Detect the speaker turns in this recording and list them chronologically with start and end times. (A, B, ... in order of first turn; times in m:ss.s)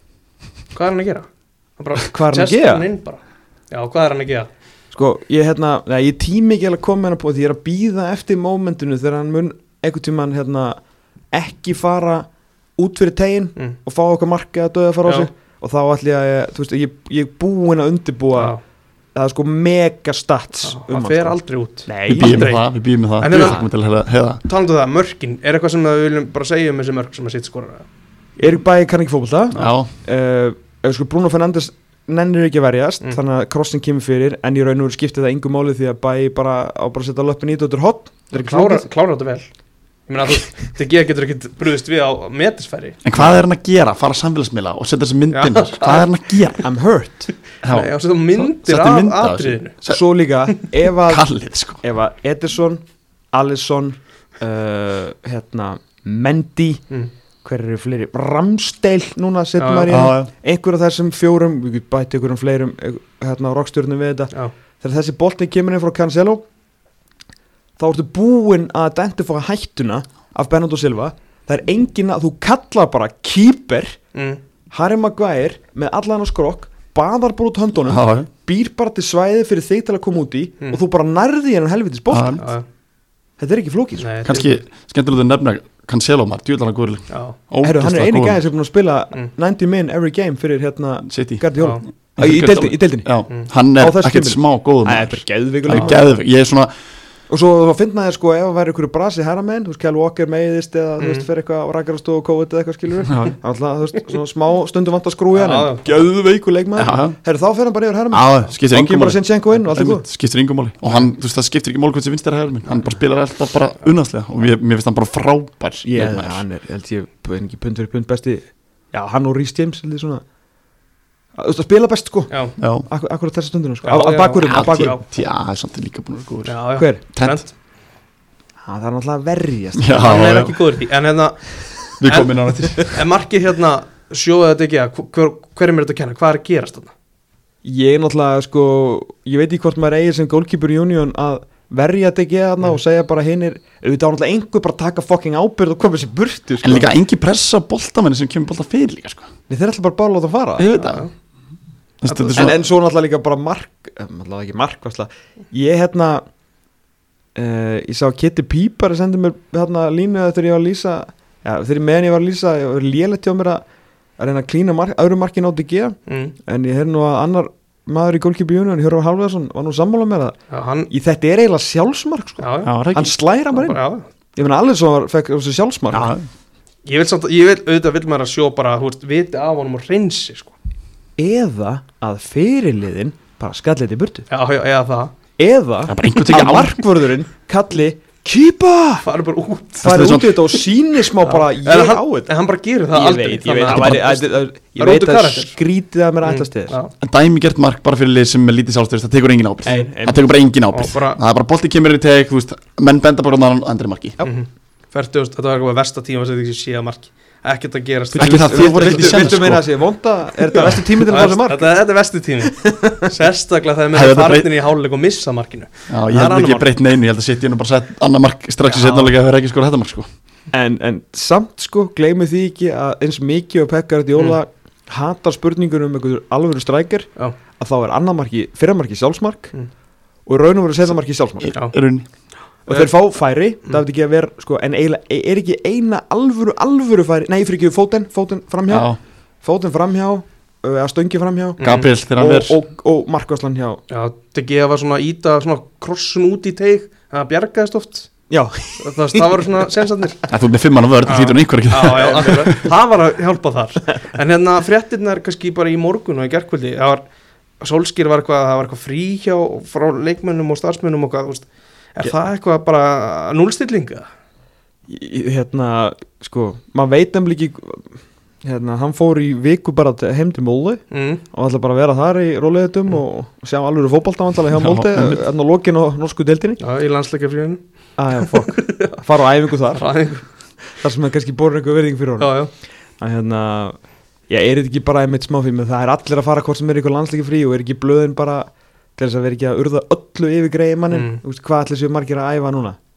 0:00.7-0:03.2 A
0:02.1-0:02.9 B
0:03.7-0:04.5 A
0:04.9-0:10.8 B
0:11.3-0:18.5 B
0:18.3-0:18.6 A
0:19.1-0:22.5 B
0:20.6-0:22.6 A
0:22.1-0:24.4 C
0:23.2-0:23.6 A
0:23.3-0:23.6 B
0:24.4-0:27.8 A
0:28.4-0:38.9 B
0:29.5-0:29.9 C
0:38.3-0:39.4 A
0:40.1-0:43.0 A
0:43.0-0:46.6 C
0:45.3-0:46.6 A
0:46.6-0:47.3 B
0:47.6-0:50.0 C
0:47.6-0:49.7 A
0:49.9-0:51.2 B
0:51.0-0:51.8 C
0:51.8-0:52.8 B
0:53.3-0:56.8 B
0:57.4-1:06.4 B
0:59.6-0:59.9 A
0:59.9-1:00.3 C
1:07.8-1:14.0 B
1:14.1-1:14.4 A
1:14.7-1:22.4 B
1:17.8-1:18.3 C
1:22.1-1:22.4 C
1:22.4-1:22.6 A
1:23.4-1:24.1 B
1:24.0-1:24.6 A
1:24.2-1:28.4 C
1:27.1-1:27.4 A
1:27.6-1:33.1 B
1:31.1-1:31.4 C
1:31.6-1:31.8 A
1:32.2-1:36.7 C
1:33.8-1:36.1 B
1:37.3-1:50.0 B
1:41.0-1:41.2 A
1:43.1-1:43.3 C
1:45.3-1:45.9 A
1:46.8-1:47.2 C
1:48.1-1:56.4 C
1:55.8-2:00.2 B
2:01.3-2:02.3 B
2:02.6-2:02.9 C
2:02.8-2:05.0 B
2:03.8-2:05.0 A
2:04.4-2:06.6 C
2:06.4-2:07.5 A
2:06.8-2:07.0 B
2:07.1-2:07.4 C
2:08.6-2:10.1 B
2:09.8-2:10.5 C
2:09.9-2:11.5 A
2:12.0-2:13.0 C
2:12.0-2:16.9 A
2:17.6-2:26.9 B
2:26.6-2:29.3 C
2:29.5-2:30.7 B
2:30.6-2:31.1 C
2:30.7-2:31.1 A
2:32.0-2:32.6 C
2:32.0-2:32.5 A
2:32.3-2:36.2 B
2:37.3-2:43.6 B
2:44.2-2:50.4 B
2:46.1-2:46.3 A
2:50.5-2:50.9 A
2:50.9-2:53.8 B
2:52.4-2:52.7 A
2:52.6-2:53.1 C
2:53.5-2:54.0 A
2:54.3-2:56.1 B
2:55.9-2:56.3 C
2:56.8-3:00.5 A
3:01.2-3:04.3 B
3:04.3-3:05.1 A
3:05.4-3:09.0 B
3:05.9-3:06.8 C
3:06.1-3:06.5 A
3:09.0-3:10.2 A
3:09.8-3:12.3 B
3:09.8-3:10.4 C
3:11.2-3:14.2 A
3:12.9-3:16.8 B
3:13.6-3:14.2 C
3:14.8-3:15.5 A
3:16.2-3:16.9 A
3:17.0-3:24.2 C
3:19.6-3:20.3 B
3:20.7-3:21.2 A
3:24.2-3:29.4 A
3:28.1-3:31.7 B
3:28.2-3:29.6 C
3:30.5-3:36.6 A
3:32.5-3:33.1 B
3:33.9-3:34.5 C
3:35.9-3:40.1 C
3:38.6-3:39.1 A
3:40.5-3:49.5 B
3:50.3-3:51.5 B
3:51.4-3:52.0 C
3:52.7-3:58.9 B
3:58.7-3:59.0 C
3:59.4-4:03.8 B
4:01.6-4:01.9 A
4:01.6-4:02.6 C
4:03.9-4:08.1 A
4:08.3-4:09.8 B
4:08.8-4:10.2 A
4:10.3-4:12.6 C
4:11.0-4:17.0 A
4:11.9-4:12.5 B
4:17.6-4:24.0 A
4:24.9-4:27.9 B
4:28.4-4:36.6 B
4:30.9-4:31.2 A
4:34.5-4:35.2 C
4:36.6-4:37.6 A
4:38.0-4:39.9 B
4:38.2-4:39.0 A
4:39.7-4:40.2 A
4:40.7-4:42.4 B
4:42.2-4:42.5 A
4:43.0-4:43.8 B
4:44.3-4:52.8 B
4:50.9-4:51.2 A